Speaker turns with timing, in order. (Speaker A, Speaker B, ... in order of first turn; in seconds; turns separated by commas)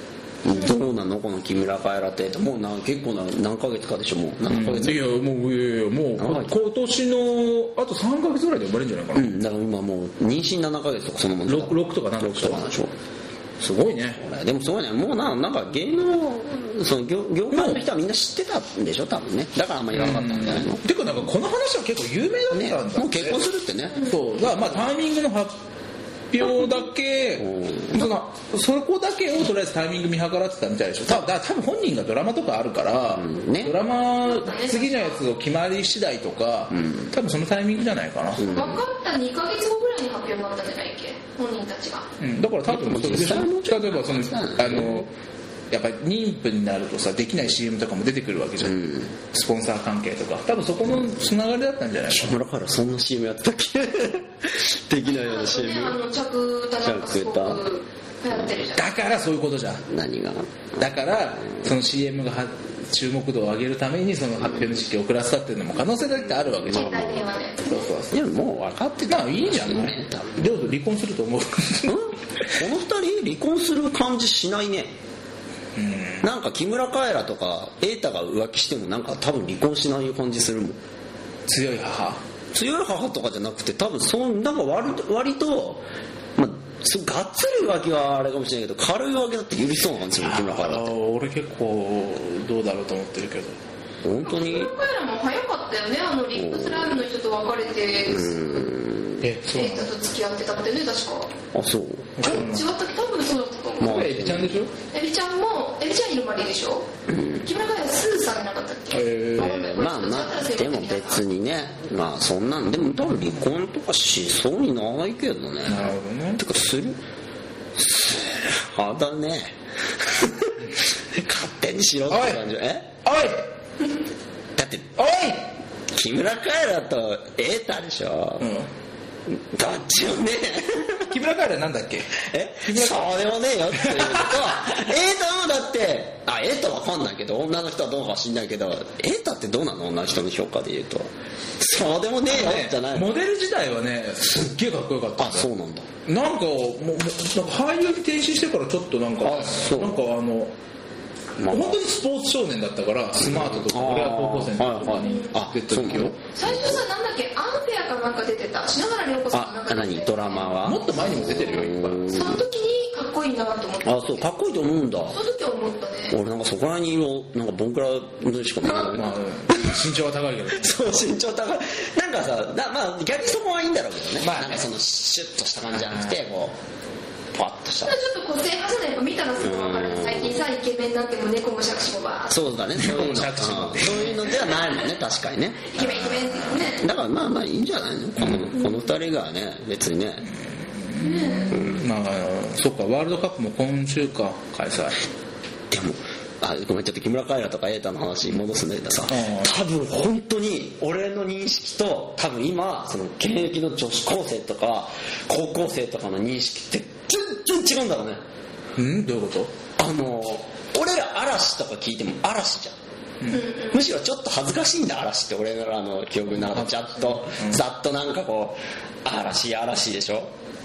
Speaker A: 0.4-5.1, Speaker B: 4.5-9.3, Speaker A: 6.2-6.5, Speaker A: 9.1-12.9, Speaker B: 11.5-12.7, Speaker B: 13.6-14.2, Speaker A: 14.2-20.9, Speaker B: 17.5-17.8, Speaker B: 19.9-23.4, Speaker A: 22.5-24.9, Speaker B: 24.0-25.6, Speaker B: 26.3-38.5, Speaker A: 27.4-28.1, Speaker A: 33.1-33.8, Speaker C: 34.2-35.2, Speaker A: 36.7-37.1, Speaker A: 38.4-38.8, Speaker C: 38.5-42.1, Speaker B: 42.2-45.1, Speaker A: 42.7-45.1, Speaker B: 45.7-52.4, Speaker A: 48.6-49.1, Speaker A: 52.1-56.0, Speaker C: 55.1-58.9, Speaker A: 56.8-57.6, Speaker A: 58.3-58.6, Speaker B: 58.8-59.9, Speaker A: 59.9-61.6, Speaker B: 60.8-66.9, Speaker A: 66.1-67.3, Speaker C: 66.7-67.8, Speaker B: 67.7-68.2, Speaker A: 68.1-70.6, Speaker B: 69.1-72.6, Speaker A: 71.9-75.0, Speaker B: 75.8-76.3, Speaker A: 76.2-80.8, Speaker B: 81.5-82.2, Speaker A: 82.5-90.9, Speaker B: 90.2-93.6, Speaker A: 94.0-94.7, Speaker C: 94.2-98.5, Speaker A: 96.3-97.0, Speaker A: 98.1-99.2, Speaker B: 99.2-99.9, Speaker C: 99.5-101.3, Speaker A: 101.5-102.5, Speaker B: 102.2-102.7, Speaker C: 102.2-104.1, Speaker A: 103.8-104.6, Speaker B: 103.8-104.7, Speaker C: 104.9-111.2, Speaker A: 107.1-107.5, Speaker B: 108.9-109.5, Speaker A: 109.4-117.0, Speaker B: 115.7-116.4, Speaker A: 117.8-122.9, Speaker B: 122.1-122.4, Speaker B: 123.0-123.5, Speaker A: 124.6-125.0, Speaker B: 125.0-125.5, Speaker A: 125.9-128.5, Speaker B: 128.4-128.7, Speaker A: 129.3-131.1, Speaker B: 131.1-134.5, Speaker A: 132.2-143.1, Speaker B: 142.3-145.5, Speaker A: 145.2-145.9, Speaker B: 146.1-150.5, Speaker A: 149.2-150.0, Speaker A: 151.4-151.8, Speaker B: 151.5-156.2, Speaker A: 153.2-156.8, Speaker C: 155.0-155.3, Speaker C: 156.3-164.3, Speaker A: 159.3-162.4, Speaker B: 160.6-162.1, Speaker A: 163.8-165.2, Speaker C: 165.1-166.2, Speaker A: 166.1-169.7, Speaker B: 168.8-170.9, Speaker A: 170.5-176.6, Speaker B: 174.2-174.7, Speaker B: 175.9-176.2, Speaker A: 177.3-178.0, Speaker C: 177.9-182.4, Speaker A: 179.4-180.4, Speaker A: 182.3-190.3, Speaker B: 182.8-184.3, Speaker C: 185.7-186.9, Speaker B: 188.2-188.6, Speaker B: 190.3-195.0, Speaker C: 191.0-191.6, Speaker A: 191.5-191.9, Speaker A: 195.7-208.2, Speaker B: 199.1-199.5, Speaker B: 208.8-209.5, Speaker A: 209.8-212.8, Speaker C: 213.3-213.8, Speaker A: 213.7-220.3, Speaker B: 216.3-217.6